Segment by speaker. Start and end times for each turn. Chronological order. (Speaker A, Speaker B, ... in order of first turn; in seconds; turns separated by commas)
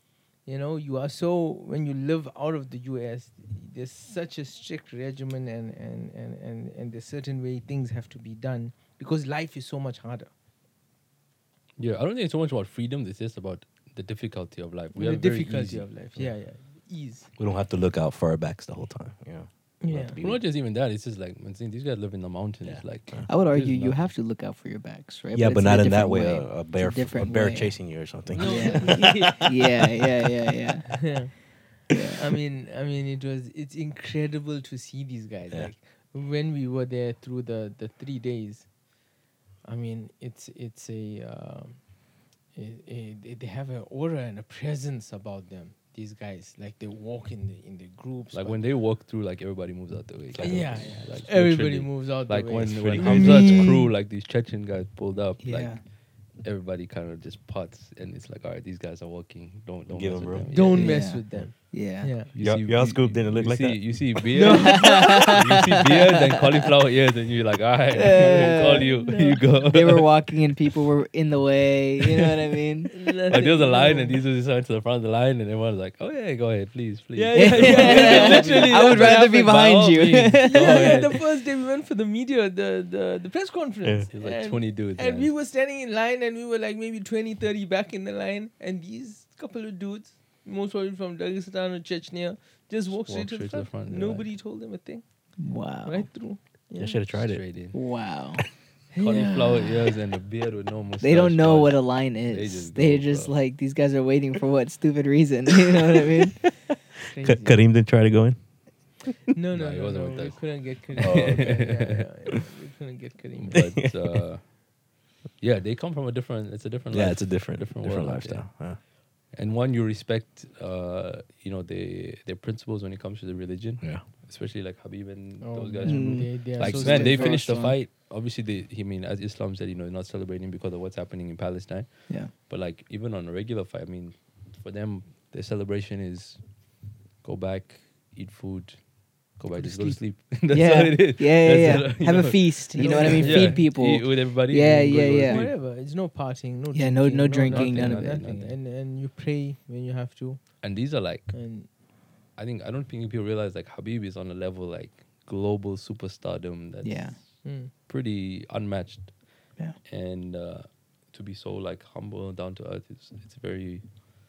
Speaker A: 0.5-10.3, Speaker B: 11.8-15.9, Speaker A: 14.9-17.3, Speaker C: 17.4-20.4, Speaker A: 19.8-20.2, Speaker B: 20.2-24.1, Speaker C: 22.6-23.3, Speaker D: 23.3-31.1, Speaker C: 25.3-29.3, Speaker A: 28.3-29.7, Speaker A: 30.9-38.7, Speaker D: 31.9-32.2, Speaker A: 39.6-41.9, Speaker A: 42.5-48.6, Speaker B: 48.3-61.1, Speaker C: 50.3-51.0, Speaker A: 50.4-53.8, Speaker C: 52.7-53.7, Speaker D: 53.1-53.8, Speaker D: 55.4-55.8, Speaker C: 59.9-60.5, Speaker A: 60.5-62.3, Speaker D: 60.7-62.1, Speaker B: 62.3-70.2, Speaker C: 62.4-64.1, Speaker A: 64.3-65.4, Speaker D: 64.4-65.6, Speaker D: 68.0-69.0, Speaker A: 68.1-69.8, Speaker D: 69.6-72.9, Speaker A: 72.9-74.2, Speaker B: 73.3-81.2, Speaker A: 77.2-79.4, Speaker D: 77.3-81.1, Speaker A: 80.4-95.0, Speaker B: 84.1-85.3, Speaker B: 92.9-94.3, Speaker D: 95.4-96.1, Speaker A: 95.8-97.0, Speaker C: 96.8-97.4, Speaker B: 97.1-97.8, Speaker D: 97.7-98.5, Speaker A: 98.9-99.7, Speaker B: 99.0-103.3, Speaker D: 101.0-106.5, Speaker A: 107.0-107.6, Speaker C: 107.2-108.4, Speaker A: 109.3-113.8, Speaker B: 109.5-112.1, Speaker C: 111.0-111.7, Speaker B: 113.4-114.8, Speaker B: 115.4-145.6, Speaker C: 116.9-118.8, Speaker A: 125.4-127.7, Speaker D: 125.8-127.8, Speaker A: 139.6-140.0, Speaker D: 140.5-145.5, Speaker A: 142.7-143.7, Speaker A: 145.2-151.7, Speaker D: 146.7-148.2, Speaker B: 147.5-148.6, Speaker B: 150.6-151.4, Speaker B: 152.3-164.1, Speaker D: 156.8-157.2, Speaker A: 157.4-157.7